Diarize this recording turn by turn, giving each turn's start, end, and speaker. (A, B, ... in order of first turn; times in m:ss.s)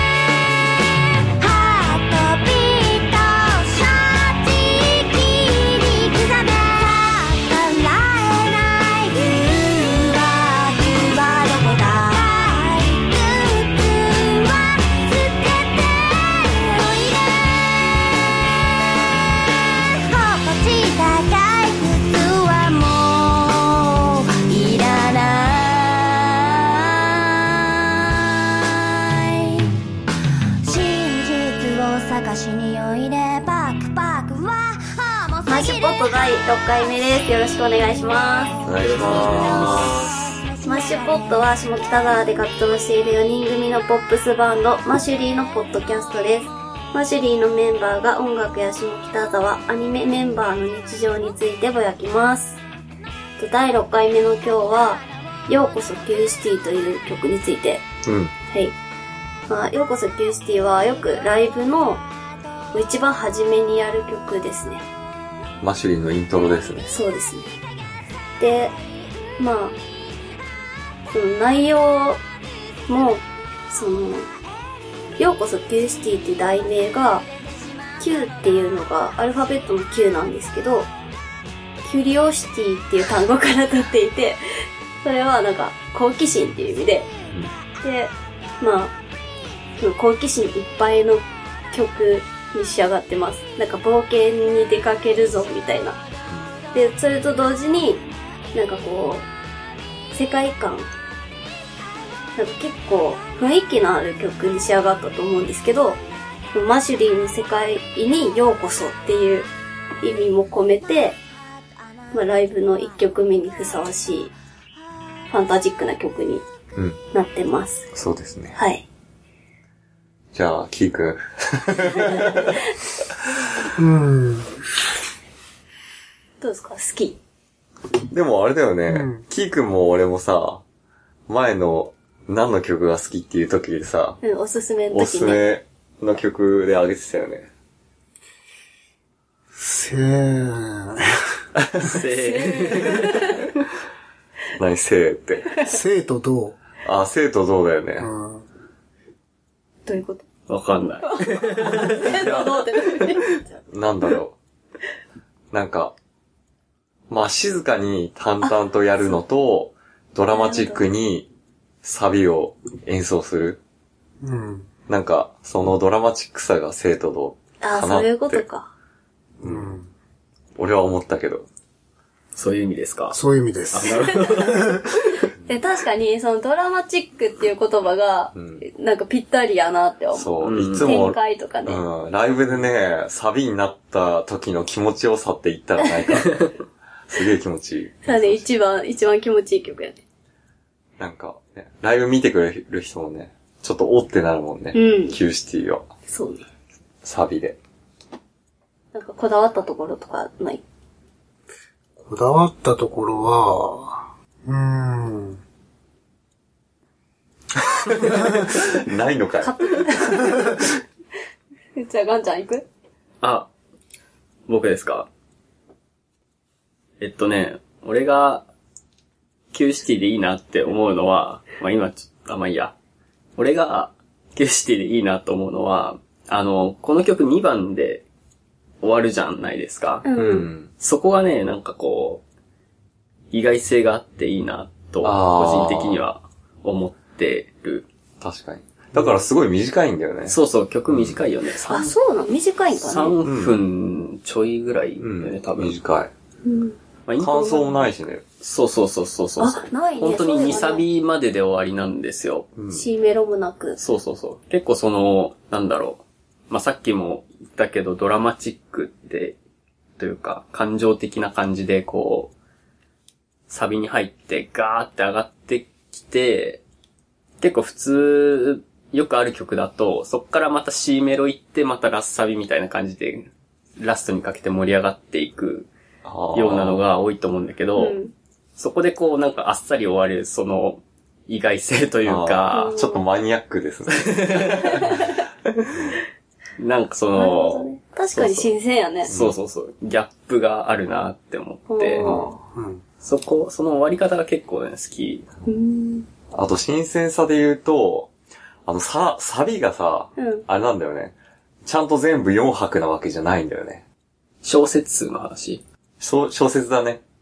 0:01.3-0:18.1 A
0:19.3-0:23.6 A
0:24.1-0:29.6 A
0:30.6-0:36.2 A
0:35.5-0:38.6 B
0:38.6-0:40.0 C
0:38.8-0:40.4 D
0:39.4-0:41.2 A
0:40.6-0:52.6 B
0:53.4-0:57.8 B
0:58.0-0:58.4 C
0:58.5-0:58.8 B
0:59.5-1:02.0 B
1:02.7-1:04.9 B
1:05.6-1:06.9 C
1:06.9-1:07.5 B
1:08.4-1:08.8 B
1:09.4-1:09.8 B
1:11.1-1:12.2 B
1:12.9-1:14.3 B
1:15.2-1:17.3 B
1:18.0-1:20.9 B
1:21.8-1:27.1 B
1:27.8-1:28.9 B
1:29.8-1:36.0 B
1:36.7-1:39.3 B
1:40.1-1:40.9 B
1:42.4-1:46.0 B
1:46.5-1:49.5 B
1:50.0-1:51.2 B
1:52.1-1:54.3 B
1:55.3-1:56.4 B
1:57.1-1:57.9 B
1:57.9-1:58.6 C
1:58.5-1:58.8 B
2:00.3-2:02.7 C
2:03.8-2:04.6 E
2:06.4-2:07.2 B
2:08.1-2:10.6 C
2:08.9-2:09.2 E
2:11.3-2:14.2 C
2:14.2-2:15.5 B
2:14.9-2:17.5 C
2:19.6-2:21.0 E
2:21.8-2:23.3 D
2:22.1-2:23.4 B
2:24.6-2:25.6 C
2:25.6-2:26.6 E
2:26.8-2:28.1 C
2:28.0-2:28.5 E
2:29.9-2:30.2 B
2:30.5-2:32.4 D
2:31.0-2:33.5 B
2:32.2-2:32.5 C
2:33.7-2:34.4 C
2:35.5-2:35.9 C
2:37.1-2:41.3 C
2:40.3-2:40.8 B
2:41.8-2:43.6 C
2:44.2-2:44.7 E
2:44.9-2:48.4 C
2:47.6-2:48.7 B
2:49.4-2:49.9 E
2:49.4-2:49.7 C
2:50.6-2:51.5 C
2:52.4-2:53.2 D
2:53.1-2:54.8 E
2:53.7-2:54.8 D
2:55.2-3:01.8 B
2:58.3-2:58.6 C
3:00.1-3:08.5 C
3:00.4-3:00.9 D
3:08.0-3:10.0 B
3:11.0-3:15.9 C
3:14.7-3:15.2 B
3:16.1-3:16.4 B
3:17.0-3:17.6 C
3:18.9-3:20.6 B
3:22.0-3:25.4 E
3:28.2-3:29.6 C
3:29.4-3:30.7 B
3:31.8-3:32.6 B
3:33.2-3:33.5 D
3:34.5-3:35.1 D
3:37.0-3:38.5 D
3:39.5-3:42.8 D
3:43.4-3:48.0 D
3:48.8-3:50.0 D
3:50.0-3:50.5 B
3:50.2-3:50.7 C
3:50.8-3:52.2 D
3:53.3-3:57.9 D
3:55.0-3:56.0 C
3:58.2-4:01.2 C
4:00.3-4:01.9 D
4:01.6-4:03.2 B
4:02.7-4:05.8 D
4:03.2-4:03.6 C
4:05.0-4:06.1 C
4:06.4-4:06.8 B
4:07.1-4:07.9 D
4:07.2-4:08.2 C
4:08.4-4:12.5 D
4:09.4-4:10.9 B
4:12.6-4:12.9 C
4:12.7-4:13.8 B
4:13.8-4:19.4 D
4:20.0-4:22.3 D
4:23.5-4:26.6 D
4:27.4-4:35.7 D
4:36.0-4:36.8 C
4:36.3-4:38.0 D
4:37.8-4:38.1 B
4:38.6-4:42.7 D
4:42.0-4:44.6 C
4:42.5-4:43.0 B
4:44.0-4:45.0 D
4:45.7-4:45.9 C
4:46.6-4:48.5 D
4:47.1-4:49.1 B
4:49.1-4:49.4 C
4:49.1-4:52.1 D
4:51.7-4:52.4 B
4:52.0-4:52.3 C
4:52.5-4:52.8 E
4:53.0-4:55.3 D
4:55.4-4:56.1 B
4:56.3-4:58.1 C
4:58.7-5:03.8 C
5:00.2-5:00.4 B
5:04.4-5:05.6 D
5:06.0-5:07.0 C